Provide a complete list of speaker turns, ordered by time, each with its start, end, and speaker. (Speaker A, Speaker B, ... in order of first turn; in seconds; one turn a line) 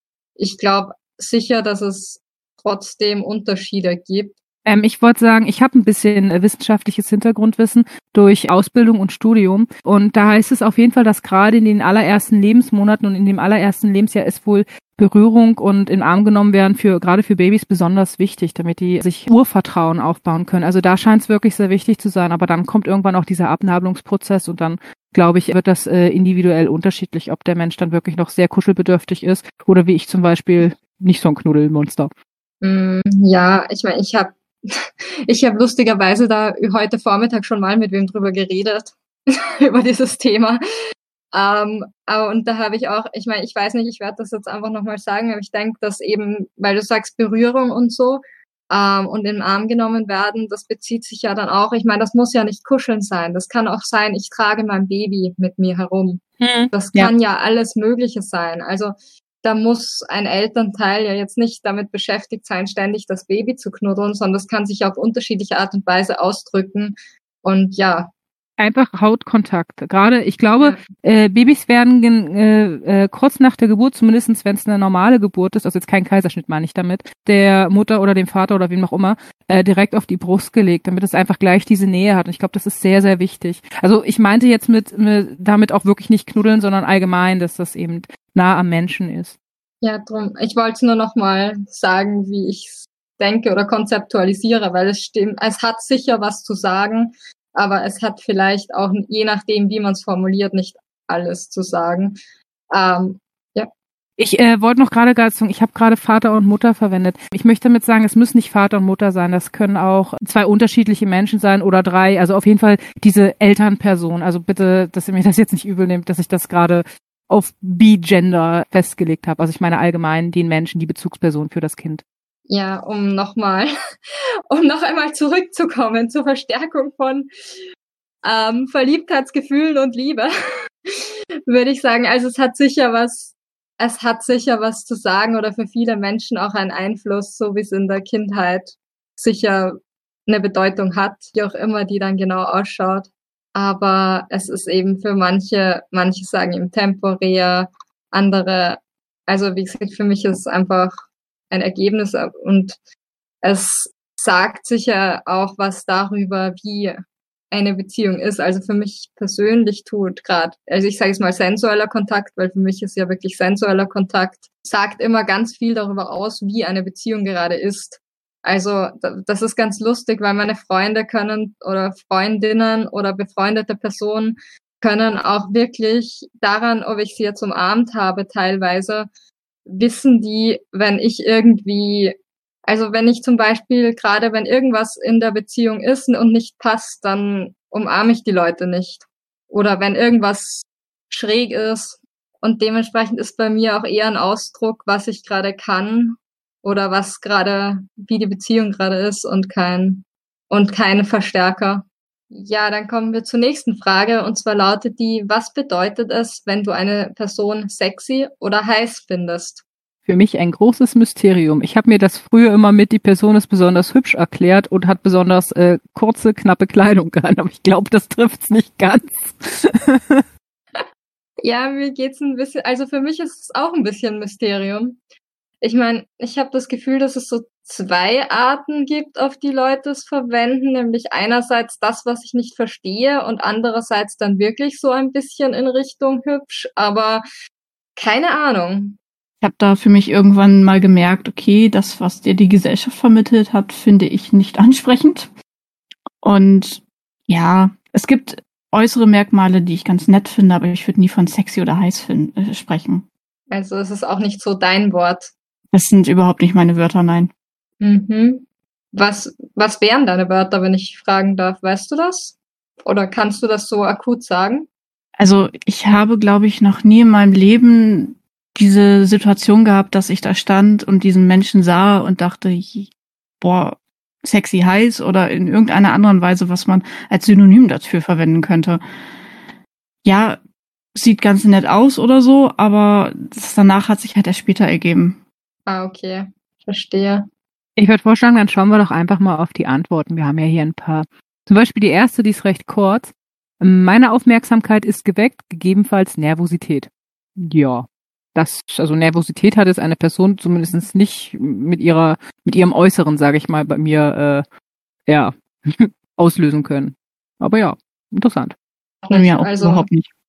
Speaker A: 0.4-4.3
Speaker B: 4.7-32.1
Speaker A: 32.6-40.6
Speaker A: 41.3-68.1
Speaker B: 56.4-57.1
Speaker B: 68.6-89.4
Speaker A: 89.8-102.2
Speaker A: 102.7-103.7
Speaker B: 104.2-122.0
Speaker A: 122.5-123.7
Speaker A: 124.5-127.3
Speaker A: 128.2-130.3
Speaker A: 131.0-152.8
Speaker A: 153.4-157.0
Speaker A: 157.5-179.1
Speaker A: 179.7-209.6
Speaker B: 210.1-220.2
Speaker A: 221.4-225.0
Speaker A: 225.6-237.2
Speaker A: 238.0-239.0
Speaker C: 239.4-245.3
Speaker C: 246.2-253.1
Speaker A: 253.5-255.3
Speaker C: 255.7-257.3
Speaker A: 257.8-264.7
Speaker C: 265.2-278.8
Speaker C: 280.0-280.4
Speaker C: 280.9-285.2
Speaker A: 285.6-287.3
Speaker B: 287.8-304.4
Speaker B: 305.1-308.5
Speaker A: 309.0-309.9
Speaker C: 309.1-310.1